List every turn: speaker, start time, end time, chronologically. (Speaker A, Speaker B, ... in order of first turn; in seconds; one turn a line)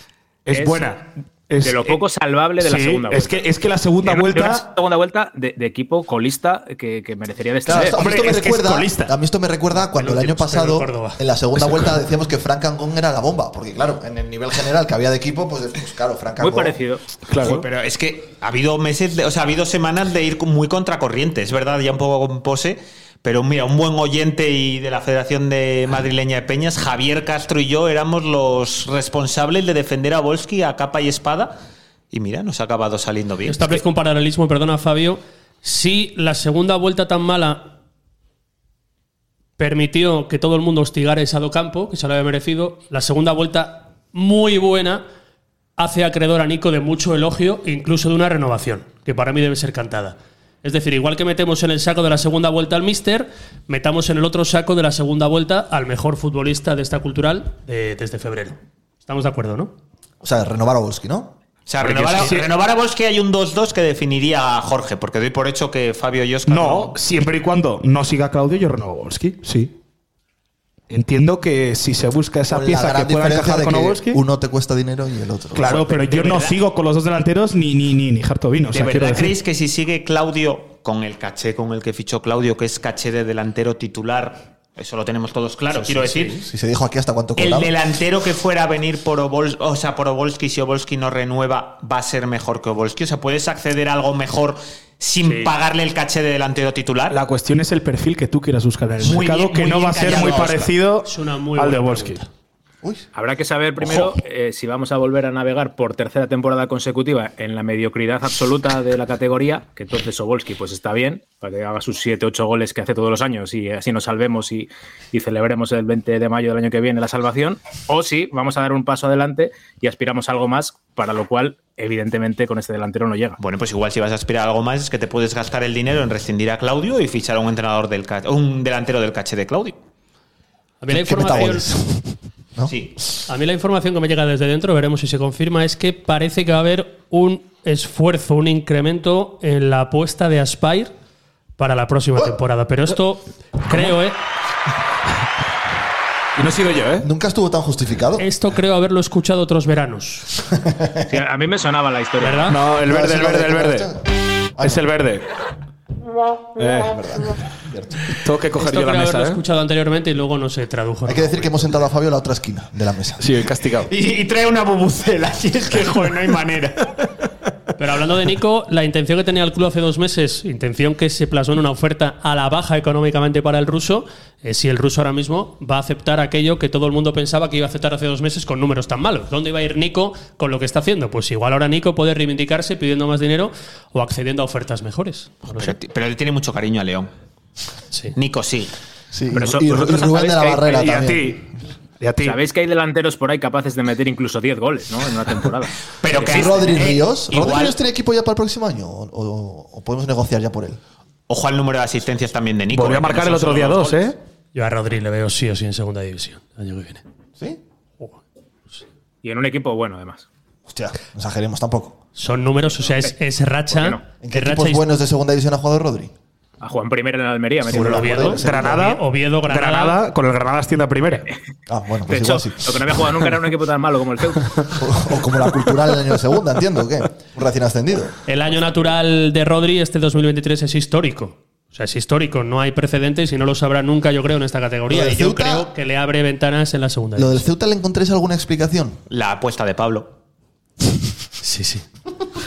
Speaker A: 0.5-2.0
Speaker B: 0.5-0.9
Speaker B: 1.6-3.5
Speaker A: 2.6-4.6
Speaker B: 4.0-8.3
Speaker C: 7.7-16.8
Speaker A: 7.7-9.1
Speaker D: 9.9-11.2
Speaker B: 16.4-17.5
Speaker A: 17.3-17.6
Speaker E: 17.4-31.6
Speaker E: 32.1-33.8
Speaker D: 33.5-37.7
Speaker D: 39.6-45.0
Speaker D: 45.8-59.7
Speaker C: 60.2-61.4
Speaker E: 61.7-67.0
Speaker A: 61.8-62.5
Speaker A: 66.5-69.7
Speaker A: 70.9-74.2
Speaker C: 72.5-75.8
Speaker A: 75.5-79.4
Speaker E: 75.6-76.6
Speaker E: 78.7-86.4
Speaker C: 86.4-87.7
Speaker E: 87.4-97.2
Speaker B: 95.2-95.5
Speaker A: 97.1-102.2
Speaker E: 99.0-100.7
Speaker D: 101.0-102.3
Speaker B: 103.1-123.4
Speaker A: 103.8-104.1
Speaker E: 123.4-129.8
Speaker D: 130.8-131.7
Speaker C: 130.9-132.7
Speaker E: 132.7-132.9
Speaker D: 133.3-140.9
Speaker D: 141.6-144.1
Speaker A: 143.7-143.9
Speaker A: 146.4-147.1
Speaker C: 147.0-148.3
Speaker D: 148.2-150.3
Speaker C: 150.6-151.1
Speaker B: 151.1-152.6
Speaker D: 152.2-152.6
Speaker A: 152.5-153.9
Speaker C: 152.8-154.0
Speaker C: 154.6-154.8
Speaker A: 154.6-155.2
Speaker A: 156.6-156.9
Speaker C: 156.8-158.1
Speaker A: 158.2-159.4
Speaker D: 158.6-161.7
Speaker C: 161.1-163.3
Speaker A: 163.2-163.9
Speaker E: 163.9-166.9
Speaker D: 167.8-185.7
Speaker E: 185.5-187.1
Speaker E: 188.1-188.7
Speaker C: 189.1-191.4
Speaker B: 189.3-191.1
Speaker A: 190.9-191.4
Speaker A: 192.0-192.4
Speaker B: 192.2-196.7
Speaker E: 196.0-197.8
Speaker C: 196.2-200.8
Speaker E: 201.3-204.0
Speaker A: 202.7-204.2
Speaker D: 204.6-207.0
Speaker B: 209.2-210.3
Speaker C: 210.7-212.0
Speaker D: 212.2-214.9
Speaker B: 212.9-213.1
Speaker B: 213.7-214.1
Speaker C: 214.2-216.1
Speaker B: 216.6-218.4
Speaker C: 217.7-218.9
Speaker D: 217.7-220.0
Speaker A: 218.4-221.3
Speaker C: 221.7-222.8
Speaker B: 222.1-224.8
Speaker C: 224.8-228.2
Speaker D: 228.3-237.4
Speaker C: 234.9-235.7
Speaker C: 237.2-239.0
Speaker E: 239.1-240.1
Speaker D: 241.4-241.8